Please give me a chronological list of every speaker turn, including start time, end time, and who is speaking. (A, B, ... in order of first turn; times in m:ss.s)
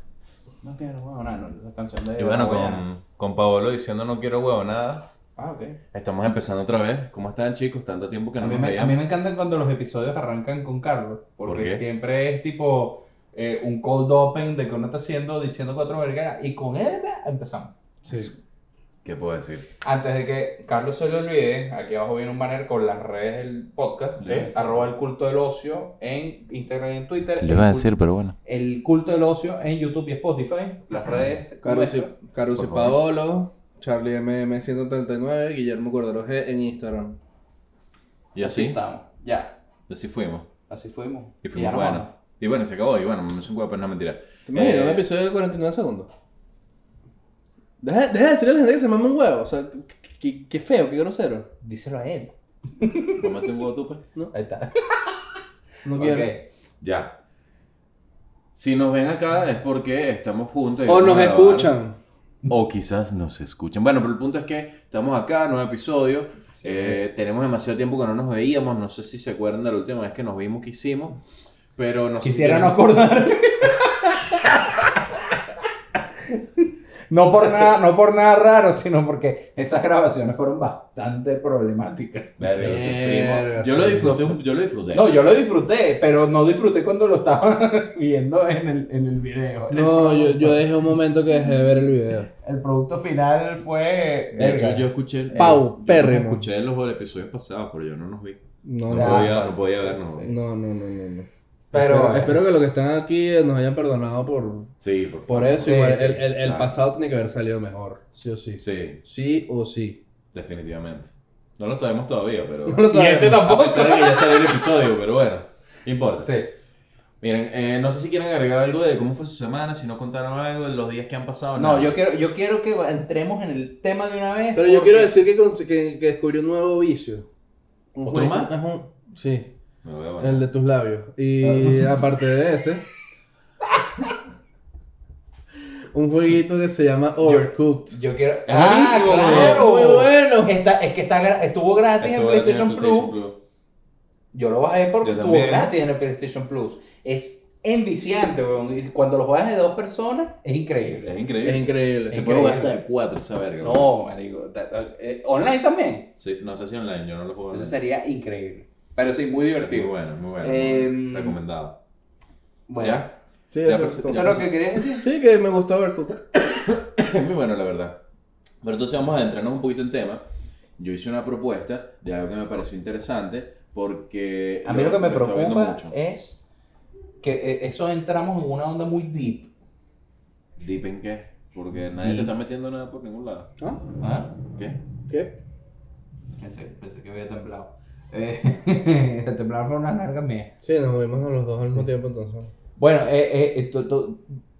0:00.6-0:02.8 A
0:02.2-0:05.2 B
0:05.4-0:05.8 A
0:05.9-0:09.0 B
0:08.4-0:17.8 A
0:11.4-0:11.8 B
0:18.0-0:18.3 C
0:19.0-0:19.7 B
0:19.8-0:27.9 A
0:24.2-0:24.9 B
0:27.4-0:28.4 B
0:28.4-0:32.1 A
0:31.6-0:37.2 C
0:32.5-0:33.0 B
0:38.3-0:38.8 B
0:38.4-0:39.6 A
0:39.9-0:40.5 B
0:40.7-0:42.1 A
0:41.4-0:45.0 B
0:44.5-0:46.1 C
0:47.8-0:51.5 C
0:51.6-0:53.4 A
0:53.2-0:54.0 B
0:54.3-0:55.2 A
0:55.8-0:56.3 C
0:55.9-0:56.5 A
0:56.8-0:57.2 B
0:58.6-1:01.7 B
1:00.9-1:02.0 C
1:02.5-1:11.2 B
1:06.5-1:07.2 A
1:11.8-1:12.8 B
1:12.2-1:15.4 A
1:16.0-1:22.9 A
1:22.4-1:25.1 B
1:22.6-1:24.4 C
1:24.9-1:30.8 A
1:29.7-1:32.3 C
1:32.4-1:35.6 A
1:34.3-1:40.3 B
1:35.3-1:36.5 C
1:38.6-1:39.4 C
1:38.9-1:40.3 A
1:40.2-1:44.7 C
1:41.7-1:42.4 A
1:44.8-1:45.7 B
1:45.3-1:50.0 C
1:45.4-1:46.3 A
1:46.4-1:46.7 B
1:48.6-1:49.0 B
1:50.3-1:56.4 B
1:52.7-1:53.4 C
1:52.9-1:54.7 A
1:56.2-1:56.5 A
1:57.2-2:02.0 B
2:01.6-2:05.1 A
2:04.6-2:07.3 C
2:08.0-2:09.5 C
2:08.0-2:08.5 B
2:09.8-2:10.4 B
2:10.2-2:12.8 C
2:11.4-2:12.0 A
2:13.7-2:14.1 A
2:15.9-2:18.0 C
2:17.2-2:23.1 A
2:18.5-2:19.7 B
2:19.2-2:20.6 C
2:22.0-2:23.4 B
2:24.3-2:31.2 A
2:25.0-2:25.8 B
2:31.0-2:33.9 B
2:31.4-2:32.2 C
2:32.1-2:32.8 A
2:33.6-2:36.1 A
2:36.2-2:37.8 B
2:37.5-2:41.4 A
2:39.6-2:41.8 B
2:42.7-2:43.0 A
2:42.8-2:44.5 B
2:43.5-2:44.5 C
2:44.1-2:45.0 A
2:45.0-2:46.2 C
2:46.4-2:48.0 B
2:48.6-2:50.2 B
2:50.8-2:56.0 B
2:54.6-2:56.4 A
2:57.2-2:59.5 A
3:00.6-3:03.5 B
3:02.0-3:02.3 A
3:04.0-3:04.3 A
3:05.1-3:05.4 C
3:06.4-3:10.5 A
3:10.6-3:12.5 C
3:12.8-3:14.4 A